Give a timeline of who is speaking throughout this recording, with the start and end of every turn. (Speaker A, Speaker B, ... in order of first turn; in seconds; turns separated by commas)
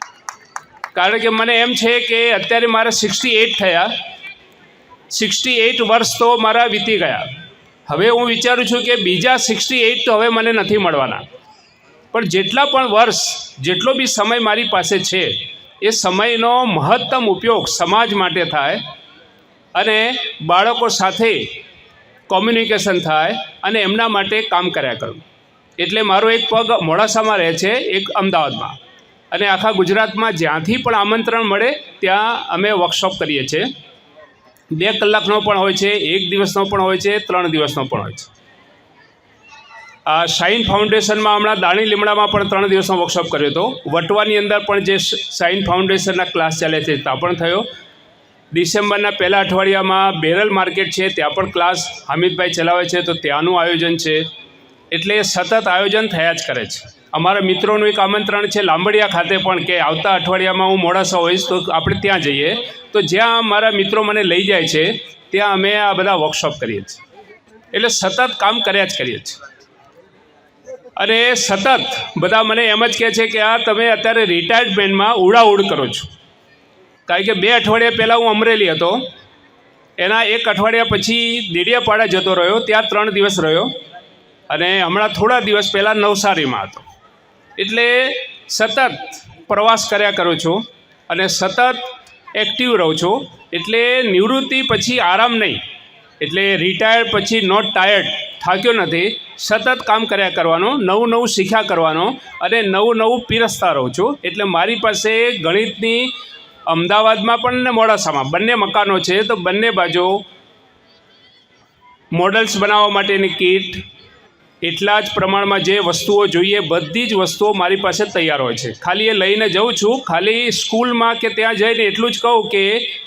Speaker A: 0.9-3.9, Speaker A: 5.1-7.3, Speaker A: 7.9-11.2, Speaker A: 12.1-18.8, Speaker A: 19.7-21.5, Speaker A: 22.3-25.2, Speaker A: 25.8-28.8, Speaker A: 29.3-33.7, Speaker A: 34.7-38.3, Speaker A: 40.0-47.7, Speaker A: 48.5-54.2, Speaker A: 54.9-67.0, Speaker A: 67.7-69.4, Speaker A: 71.0-76.1, Speaker A: 77.1-79.0, Speaker A: 80.0-83.7, Speaker A: 84.5-86.8, Speaker A: 87.6-95.6, Speaker A: 96.2-106.1, Speaker A: 106.7-110.2, Speaker A: 112.1-113.8, Speaker A: 114.6-122.9